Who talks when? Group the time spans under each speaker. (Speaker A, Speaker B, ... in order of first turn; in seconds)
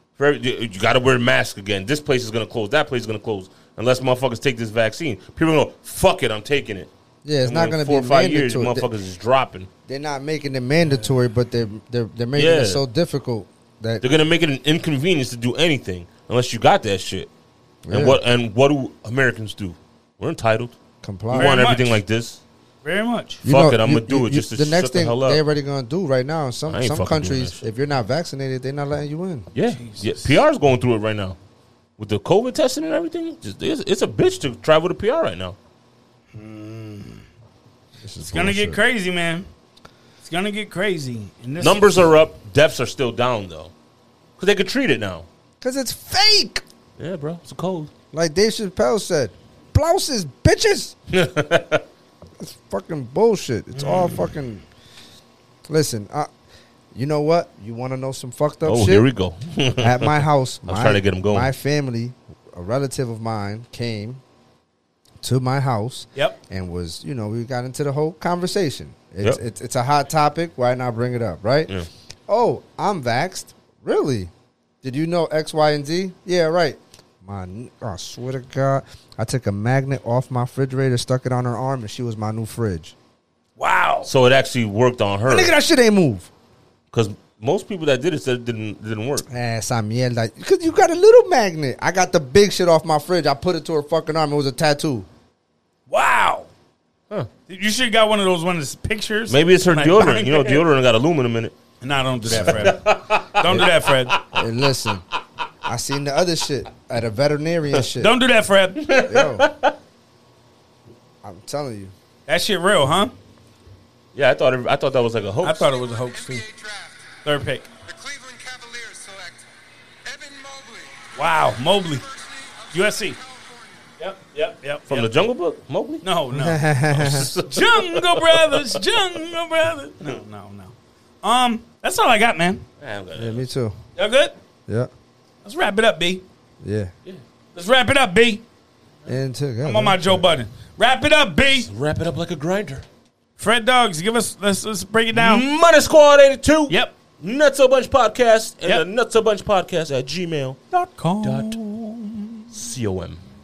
Speaker A: 0.2-6.9, 7.4-9.7, 12.3-12.8, 14.0-17.3, 17.9-20.8, 21.3-22.4, 23.4-25.4, 26.7-27.6, 29.5-31.4, 32.0-35.5, 41.6-43.7, 44.4-45.2, 47.0-47.9, 51.1-51.8, 58.7-61.5, 84.1-85.5, 86.9-89.3, 99.3-101.5, 102.2-104.3, 108.8-109.7, 114.1-115.7, 124.9-126.0, 126.9-129.3, 132.8-133.4, 141.6-142.9, 145.1-150.6, 151.2-151.6, 152.5-153.2
Speaker B: 7.2-8.9, 9.9-14.0, 17.9-18.2, 21.0-21.6, 23.4-29.5, 38.0-38.8, 45.6-46.6, 48.1-50.9, 52.4-54.6, 55.7-56.3, 56.9-59.0, 59.8-64.2, 65.2-71.8, 72.3-74.3, 74.8-83.0, 85.3-86.3, 89.3-95.1, 104.3-105.0, 105.7-108.2, 109.1-109.5, 111.2-111.9, 126.3-127.3, 133.2-133.8, 136.6-136.9, 139.1-140.3
Speaker C: 21.3-22.0, 22.8-23.4, 29.6-30.4, 36.3-37.2, 38.2-39.5, 40.2-42.0, 53.8-54.2, 83.6-84.1, 95.9-96.5, 97.5-100.6, 101.8-102.8, 103.3-104.2, 108.0-108.8, 112.3-113.1, 115.4-116.5, 117.2-117.7, 121.2-122.0, 122.7-123.2, 124.0-125.2, 126.0-126.6, 127.5-132.6, 134.0-134.3, 135.4-136.2, 137.6-138.4, 139.6-141.7, 143.4-145.5, 146.7-146.9, 150.7-152.5
Speaker D: 115.8-117.1, 117.9-119.5, 120.0-123.9